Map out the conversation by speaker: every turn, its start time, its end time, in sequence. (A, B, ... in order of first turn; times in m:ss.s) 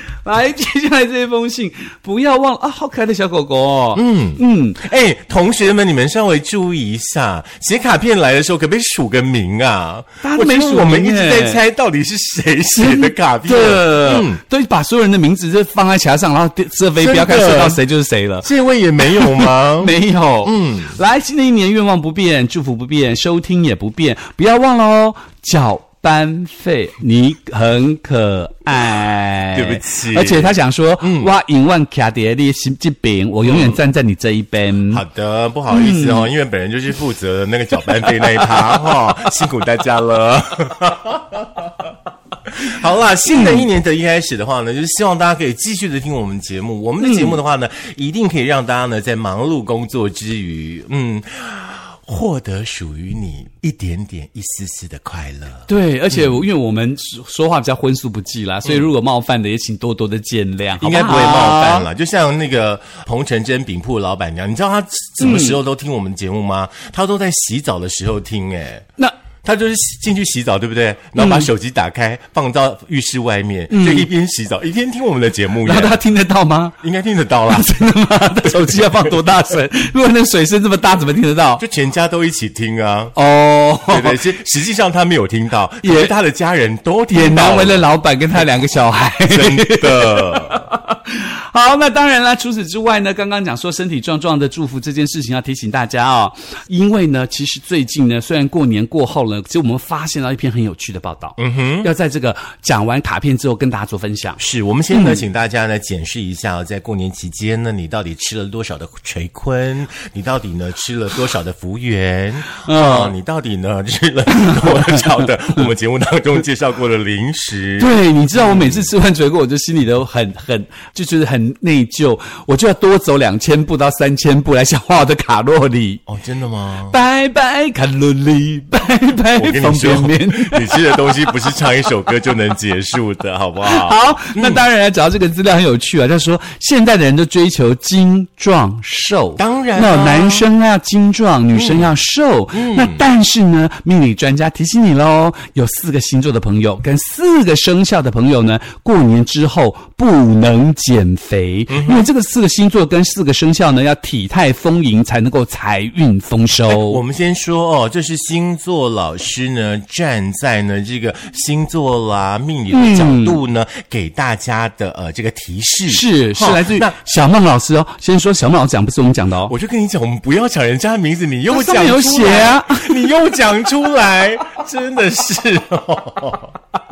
0:00.2-0:04.8 A
0:03.9-0:14.4 B
0:10.2-0:11.6 A
0:12.7-0:18.5 A
0:17.0-0:17.8 B
0:18.4-0:21.0 B
0:19.0-0:35.0 A
0:29.5-0:31.3 B
0:33.4-0:33.8 B
0:34.9-0:41.9 B
0:35.7-0:36.3 A
0:42.5-0:56.2 B
0:43.3-0:43.6 A
0:47.0-0:47.4 A
0:55.7-1:01.9 A
1:00.8-1:08.8 B
1:05.2-1:05.6 A
1:09.4-1:16.0 B
1:11.2-1:11.5 A
1:13.7-1:14.1 A
1:15.6-1:16.7 A
1:16.8-1:17.8 B
1:17.5-1:21.6 A
1:18.4-1:19.2 B
1:21.6-1:23.1 B
1:23.1-1:24.2 A
1:23.9-1:27.8 B
1:25.8-1:26.1 A
1:27.1-1:44.4 A
1:29.2-1:30.6 B
1:41.4-1:41.9 B
1:44.4-1:58.9 B
1:44.9-1:45.2 A
1:52.5-1:53.1 A
1:54.3-1:55.6 A
1:57.8-2:06.0 A
2:06.1-2:07.0 B
2:06.9-2:11.0 A
2:09.4-2:14.6 B
2:13.6-2:37.0 A
2:19.4-2:20.5 B
2:21.5-2:21.9 B
2:22.5-2:23.0 B
2:31.7-2:32.0 B
2:36.6-2:46.9 B
2:42.7-2:43.4 A
2:45.9-2:49.5 A
2:49.5-2:56.6 B
2:51.5-2:53.0 A